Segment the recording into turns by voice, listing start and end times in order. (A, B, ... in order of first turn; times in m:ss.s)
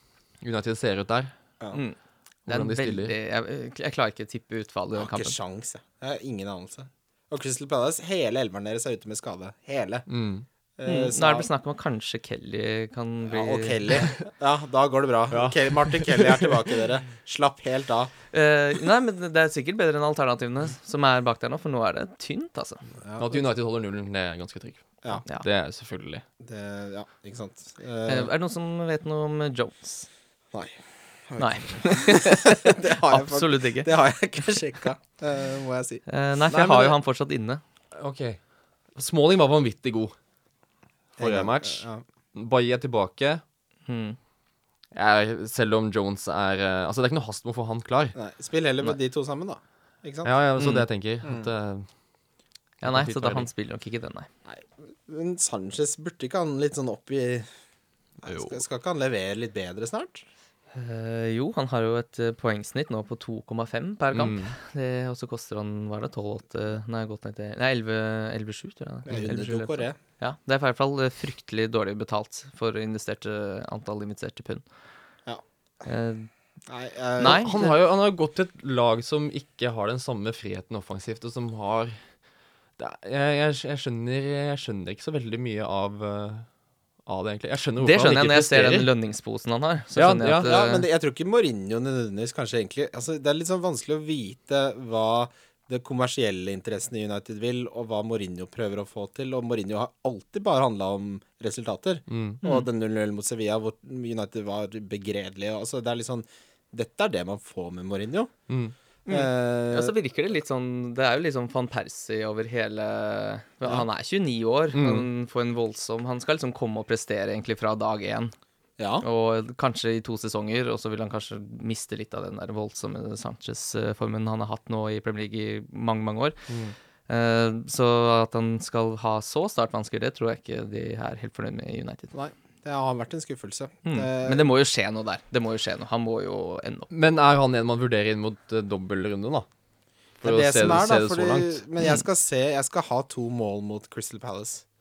0:00.4-0:01.3 A
0:01.7-0:05.4 B
0:02.5-0:03.1 A
0:04.9-0:10.1 C
0:10.1-0:10.4 A
0:10.8-0:11.5 C
0:10.8-0:14.1 B
0:13.3-0:18.1 C
0:15.3-0:16.7 A
0:18.3-0:22.8 B
0:23.0-0:23.4 C
0:23.2-0:26.2 A
0:26.4-0:28.3 C
0:28.1-0:30.1 B
0:30.5-0:36.0 C
0:31.4-0:33.9 B
0:36.1-0:37.6 B
0:36.5-0:37.0 A
0:38.0-0:38.4 A
0:38.9-0:40.1 A
0:41.2-0:43.4 A
0:41.2-0:42.0 C
0:43.9-0:44.2 B
0:44.9-0:48.2 A
0:48.1-0:50.3 C
0:50.2-0:51.9 A
0:50.6-0:50.8 B
0:52.8-0:53.5 A
0:52.8-0:54.3 B
0:54.4-0:57.5 C
0:58.2-1:00.3 C
1:00.7-1:14.6 B
1:04.1-1:04.5 A
1:09.0-1:10.0 C
1:15.8-1:16.3 B
1:16.7-1:17.6 C
1:17.2-1:17.7 B
1:17.2-1:22.0 A
1:22.8-1:26.5 A
1:27.1-1:28.9 A
1:27.8-1:30.8 B
1:30.0-1:30.5 A
1:30.4-1:48.3 C
1:42.1-1:42.4 A
1:48.5-1:48.7 A
1:49.0-1:58.3 B
1:49.1-1:49.9 C
1:54.7-1:55.0 A
1:58.8-1:59.0 C
1:59.0-2:06.4 B
2:07.1-2:12.1 B
2:12.1-2:14.5 C
2:13.8-2:16.9 B
2:16.9-2:19.4 A
2:20.2-2:21.6 A
2:20.2-2:24.6 C